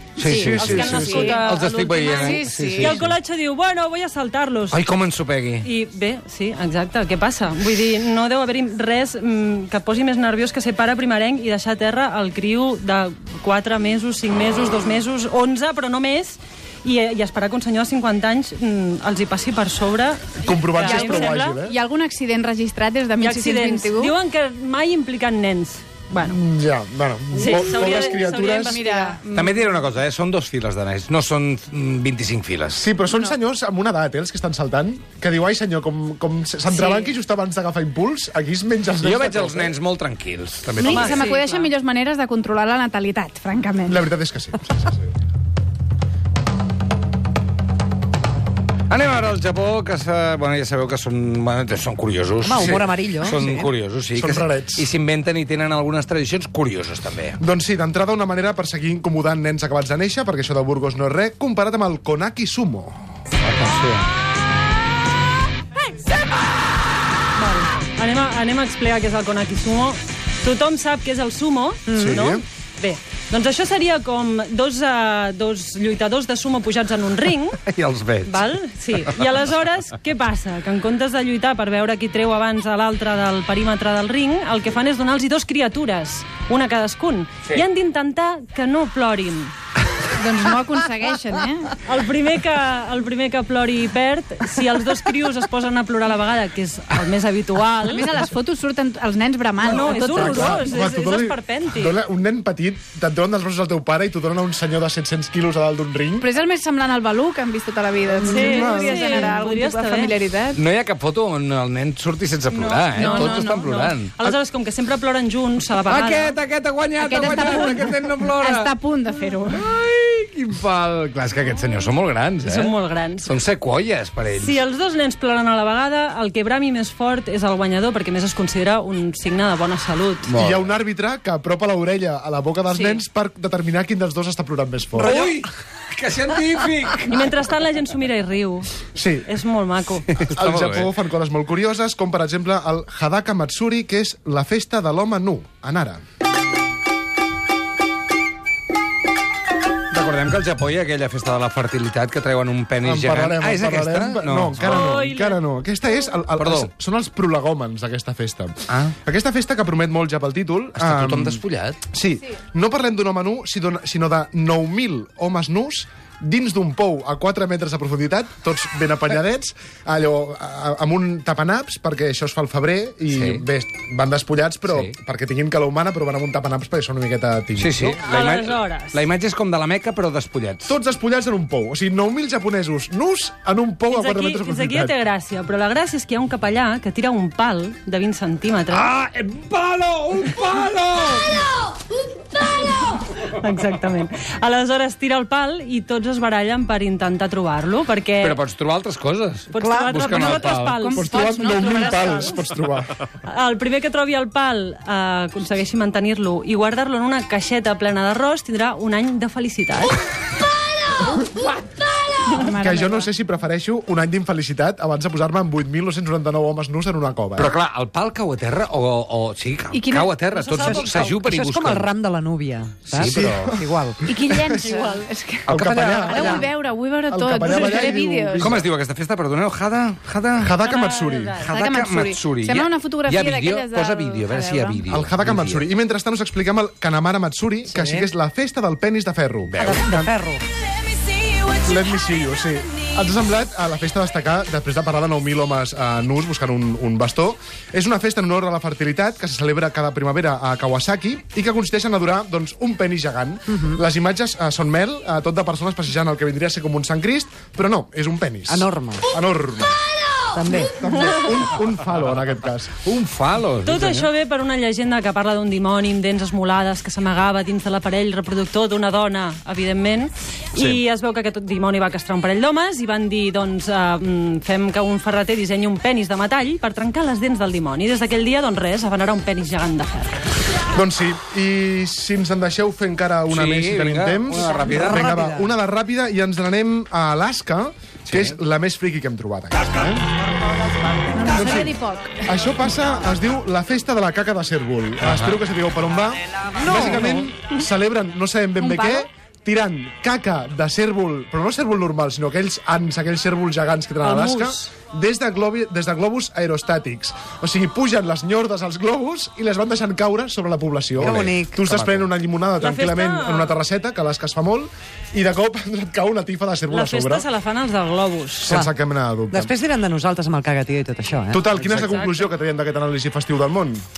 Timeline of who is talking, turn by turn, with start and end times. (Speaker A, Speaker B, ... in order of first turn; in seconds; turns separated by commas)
Speaker A: 0.2-3.1, Speaker B: 0.2-1.5, Speaker C: 0.3-4.8, Speaker B: 2.1-3.0, Speaker A: 4.7-5.7, Speaker C: 5.6-21.6, Speaker D: 20.4-21.8, Speaker B: 20.8-24.1, Speaker C: 23.2-26.4, Speaker D: 26.2-28.8, Speaker C: 27.3-29.8, Speaker B: 27.4-29.2, Speaker A: 29.3-32.8, Speaker D: 32.7-39.7, Speaker B: 36.8-37.1, Speaker A: 39.0-41.2, Speaker D: 40.7-41.1, Speaker B: 40.8-44.0, Speaker C: 40.8-41.7, Speaker D: 43.9-45.1, Speaker A: 48.9-57.4, Speaker E: 52.4-53.7, Speaker D: 52.5-53.4, Speaker D: 54.1-54.9, Speaker D: 57.4-63.0, Speaker A: 63.4-64.0, Speaker C: 67.4-77.6, Speaker E: 71.9-72.2, Speaker D: 71.9-72.4, Speaker A: 77.6-78.4, Speaker C: 78.3-89.5, Speaker B: 90.2-91.7, Speaker C: 91.8-98.1, Speaker B: 97.8-100.7, Speaker C: 99.6-102.0, Speaker D: 99.9-106.3, Speaker B: 106.2-110.6, Speaker D: 108.2-109.3, Speaker C: 108.3-110.2, Speaker A: 110.5-114.1, Speaker C: 112.5-116.4, Speaker B: 113.0-113.7, Speaker A: 115.9-118.7, Speaker B: 117.0-119.7, Speaker C: 117.3-117.6, Speaker A: 119.5-124.6, Speaker C: 122.4-123.3, Speaker C: 124.4-130.3, Speaker A: 130.2-130.8, Speaker D: 130.3-135.2, Speaker C: 132.7-133.0, Speaker A: 135.0-137.2, Speaker C: 137.1-138.7, Speaker D: 139.0-139.3, Speaker C: 139.2-140.1, Speaker A: 140.1-140.9, Speaker D: 140.3-146.0, Speaker A: 149.9-155.0, Speaker D: 152.8-178.0, Speaker C: 154.6-155.4, Speaker A: 156.4-156.7, Speaker A: 160.8-161.8, Speaker A: 173.1-173.4, Speaker A: 174.7-174.9, Speaker A: 177.6-180.8, Speaker C: 178.0-179.0, Speaker D: 180.7-184.9, Speaker C: 183.9-188.9, Speaker A: 188.7-191.3, Speaker C: 193.1-198.4, Speaker A: 198.2-200.8, Speaker C: 199.5-202.2, Speaker E: 199.6-200.0, Speaker B: 200.0-202.4, Speaker D: 200.9-203.0, Speaker C: 203.3-210.0, Speaker B: 212.3-213.1, Speaker D: 212.6-217.5, Speaker A: 217.4-221.9, Speaker B: 219.7-220.8, Speaker C: 220.3-221.2, Speaker E: 220.6-224.0, Speaker A: 222.9-223.6, Speaker D: 223.0-224.8, Speaker B: 224.1-228.6, Speaker D: 225.5-226.5, Speaker A: 225.5-226.2, Speaker E: 225.5-226.5, Speaker D: 227.1-228.7, Speaker A: 228.4-230.6, Speaker D: 230.4-231.4, Speaker C: 230.6-231.4, Speaker A: 231.4-235.7, Speaker B: 231.4-234.8, Speaker D: 234.9-239.7, Speaker E: 237.7-238.1, Speaker A: 239.5-240.1, Speaker E: 239.6-240.4, Speaker D: 241.5-259.8, Speaker E: 258.5-259.1, Speaker E: 260.4-260.8, Speaker D: 260.7-262.8, Speaker A: 262.9-264.1, Speaker C: 263.6-280.2, Speaker D: 280.7-290.0, Speaker A: 283.3-285.1, Speaker E: 284.6-285.6, Speaker A: 288.1-288.4, Speaker B: 291.1-292.3, Speaker D: 291.3-317.2, Speaker A: 295.0-295.4, Speaker E: 296.6-297.3, Speaker B: 298.6-299.0, Speaker C: 304.0-304.7, Speaker E: 311.0-312.1, Speaker C: 312.6-313.6, Speaker C: 316.7-318.5, Speaker E: 318.5-318.7, Speaker D: 318.5-319.5, Speaker E: 319.3-321.4, Speaker D: 321.3-323.8, Speaker A: 321.6-322.0, Speaker C: 321.6-322.3